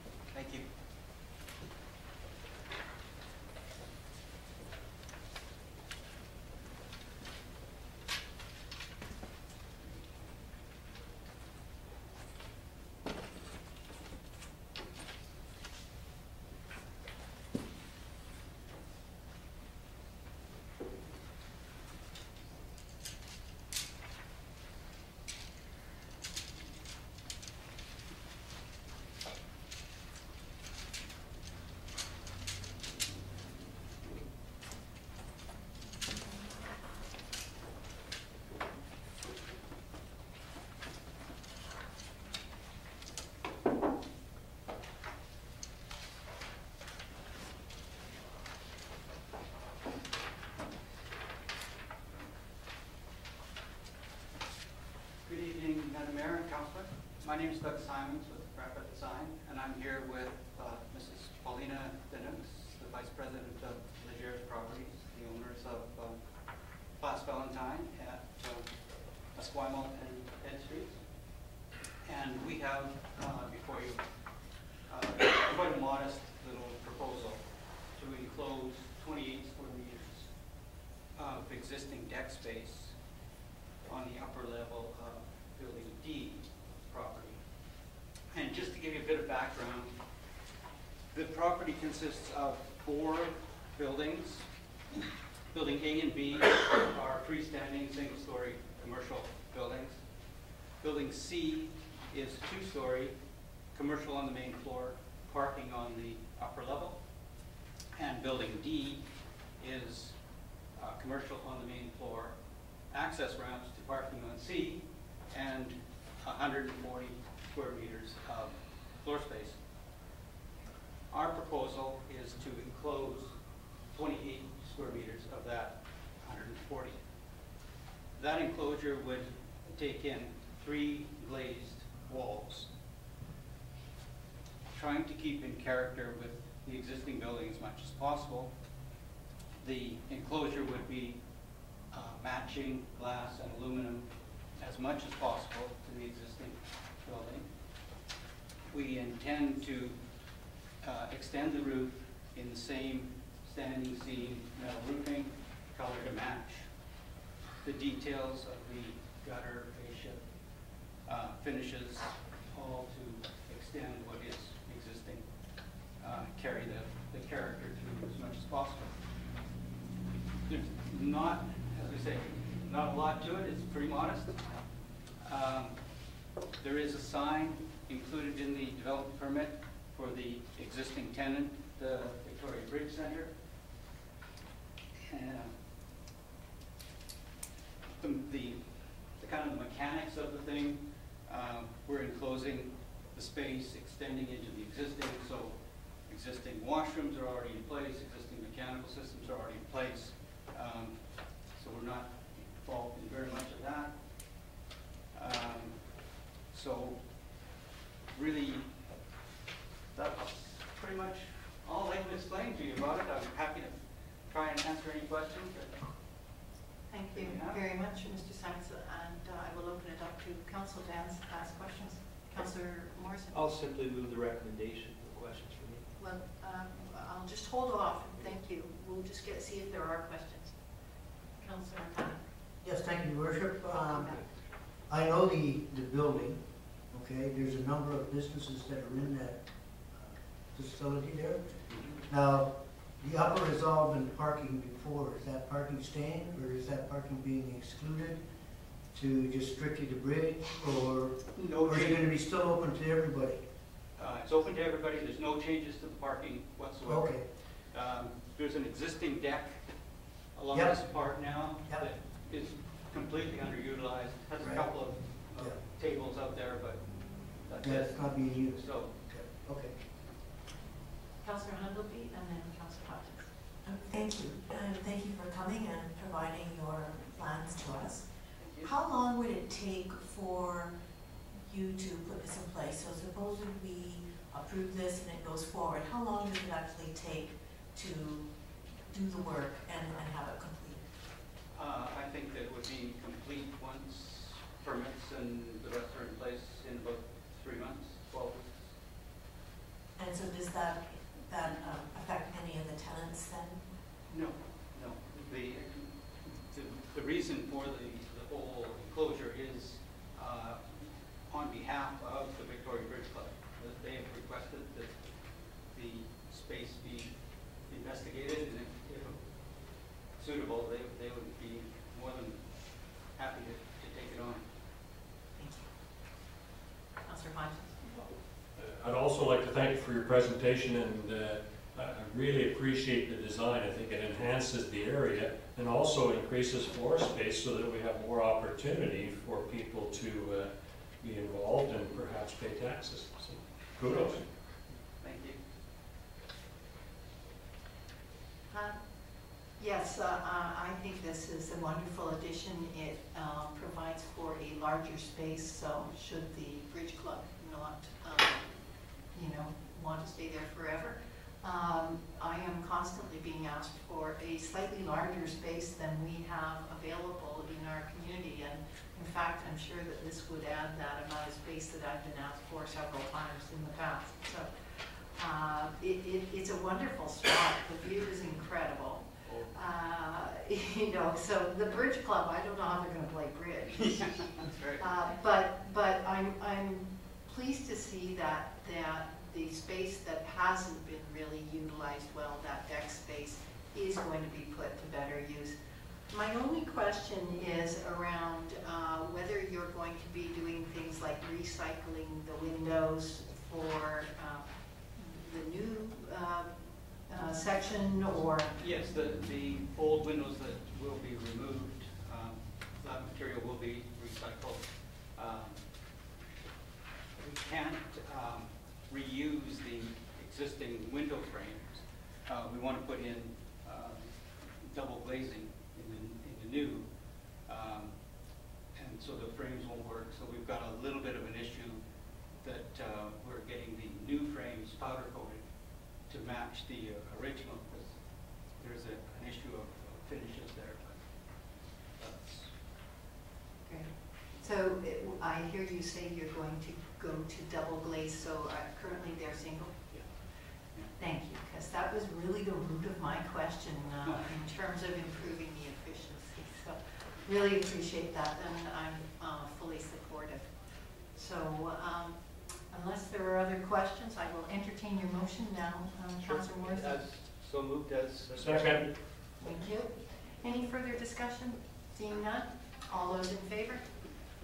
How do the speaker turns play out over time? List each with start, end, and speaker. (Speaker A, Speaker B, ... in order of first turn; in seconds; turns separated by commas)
Speaker A: 0.3-0.7, Speaker A: 55.2-66.2, Speaker A: 67.0-68.7, Speaker A: 69.3-71.0, Speaker A: 72.0-74.0, Speaker A: 74.9-77.4, Speaker A: 78.0-80.3, Speaker A: 81.2-82.9, Speaker A: 83.8-87.4, Speaker A: 88.3-90.0, Speaker A: 91.1-94.5, Speaker A: 95.5-100.0, Speaker A: 100.8-103.1, Speaker A: 103.7-107.0, Speaker A: 108.0-109.0, Speaker A: 109.6-110.2, Speaker A: 110.8-112.3, Speaker A: 112.9-119.6, Speaker A: 121.1-123.3, Speaker A: 123.9-127.0, Speaker A: 128.2-132.7, Speaker A: 134.7-138.5, Speaker A: 139.6-141.2, Speaker A: 141.9-144.1, Speaker A: 144.6-147.4, Speaker A: 148.7-150.0, Speaker A: 150.8-156.7, Speaker A: 157.6-160.2, Speaker A: 161.1-165.3, Speaker A: 166.0-169.0, Speaker A: 170.4-174.4, Speaker A: 175.2-175.8, Speaker A: 176.6-183.3, Speaker A: 185.1-185.5, Speaker A: 188.0-188.6, Speaker A: 189.2-201.0, Speaker A: 201.5-203.9, Speaker A: 205.1-205.8, Speaker A: 206.5-207.0, Speaker A: 208.1-208.8, Speaker A: 209.9-213.7, Speaker A: 214.3-215.8, Speaker B: 216.9-223.5, Speaker A: 217.1-217.6, Speaker C: 223.3-225.8, Speaker B: 226.0-230.5, Speaker B: 231.4-232.2, Speaker D: 232.6-234.2, Speaker B: 233.8-234.2, Speaker D: 234.9-241.4, Speaker A: 241.7-242.0, Speaker D: 242.1-248.2, Speaker D: 248.9-253.4, Speaker A: 251.3-252.1, Speaker A: 254.0-259.7, Speaker D: 256.8-257.2, Speaker A: 260.3-266.8, Speaker D: 260.5-260.8, Speaker D: 264.4-264.6, Speaker A: 267.4-268.9, Speaker D: 267.6-269.7, Speaker B: 271.2-273.3, Speaker E: 273.6-278.1, Speaker A: 278.4-278.7, Speaker E: 278.6-280.7, Speaker E: 281.3-288.3, Speaker E: 288.9-290.8, Speaker A: 291.5-298.7, Speaker E: 300.0-303.6, Speaker A: 304.1-315.0, Speaker A: 315.7-317.1, Speaker A: 317.7-319.2, Speaker A: 320.1-322.4, Speaker A: 323.1-324.4, Speaker B: 325.4-325.7, Speaker B: 327.0-327.8, Speaker F: 328.6-344.2, Speaker A: 345.0-345.4, Speaker B: 348.5-348.8, Speaker B: 349.6-358.5, Speaker B: 359.1-374.5, Speaker B: 375.2-384.3, Speaker A: 379.2-379.5, Speaker A: 383.8-384.9, Speaker B: 384.8-395.6, Speaker B: 396.1-406.5, Speaker B: 407.1-408.5, Speaker A: 408.6-415.6, Speaker A: 417.2-426.9, Speaker A: 427.4-427.9, Speaker A: 428.7-431.8, Speaker A: 432.4-435.4, Speaker A: 436.0-442.6, Speaker B: 443.7-449.8, Speaker B: 451.0-460.5, Speaker A: 454.0-454.3, Speaker B: 461.1-462.2, Speaker B: 462.7-467.0, Speaker C: 466.2-468.9, Speaker F: 468.3-468.9, Speaker B: 469.4-473.8